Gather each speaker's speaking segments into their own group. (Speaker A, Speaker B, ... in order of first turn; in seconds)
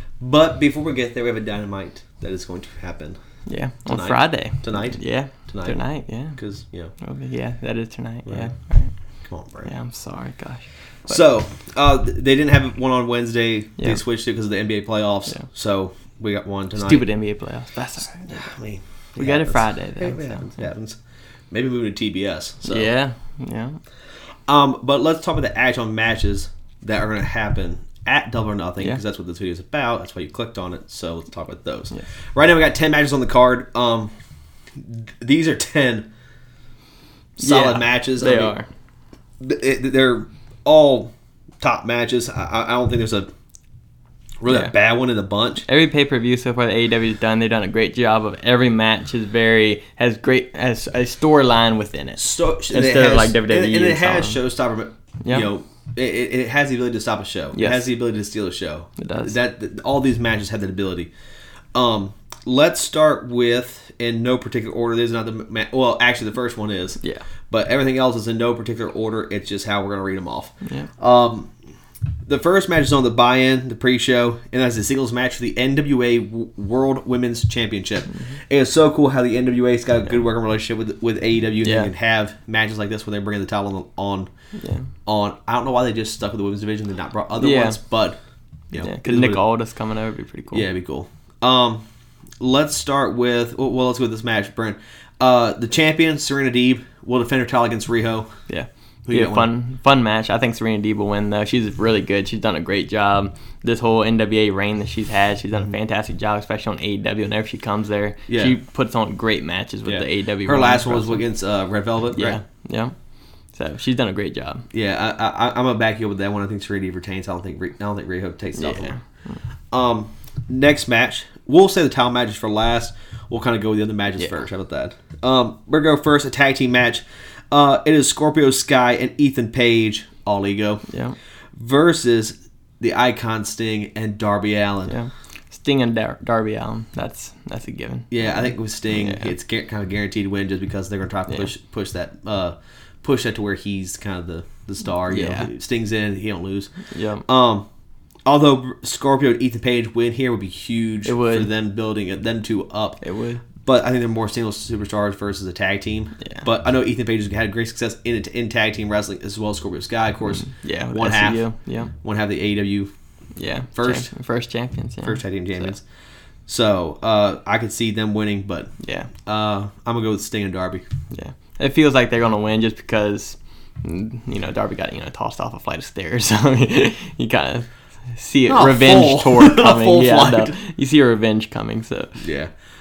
Speaker A: 0.2-3.2, 3.9-5.8, 6.4-6.9, 8.3-8.5, 9.3-9.7, 11.1-17.0, 18.2-21.0, 21.5-22.9, 24.5-34.1, 34.8-36.1, 37.4-38.6, 39.4-43.3, 44.4-45.6, 52.2-61.1, 61.8-71.5, 72.3-84.3, 85.1-88.2, 88.7-89.4, 90.5-91.8, 92.4-98.4, 99.1-99.5, 108.3-108.6, 109.9-112.4, 114.7-119.0, 119.7-130.8, 131.6-135.0, 138.1-146.7, 147.3-147.7, 148.3-153.0, 153.6-161.4, 162.0-162.9, 163.8-164.1, 165.0-165.8, 166.5-168.7, 169.3-170.8, 178.5-180.6, 182.2-182.5
Speaker B: 3.5-6.4, 7.0-8.9, 9.6-11.2, 16.8-18.4, 19.2-20.5, 22.6-23.8, 37.4-38.7, 45.7-54.4, 55.2-55.5, 57.5-57.9, 59.0-59.3, 70.6-70.9, 81.6-81.9, 84.6-84.9, 87.4-87.8, 88.8-90.7, 98.5-111.2, 112.2-112.9, 113.5-114.6, 118.6-119.0, 130.9-131.2, 134.9-139.3, 145.1-145.5, 146.9-147.2, 151.1-151.5, 153.0-153.4, 160.3-161.9, 163.4-165.7, 168.8-169.1, 171.1-182.2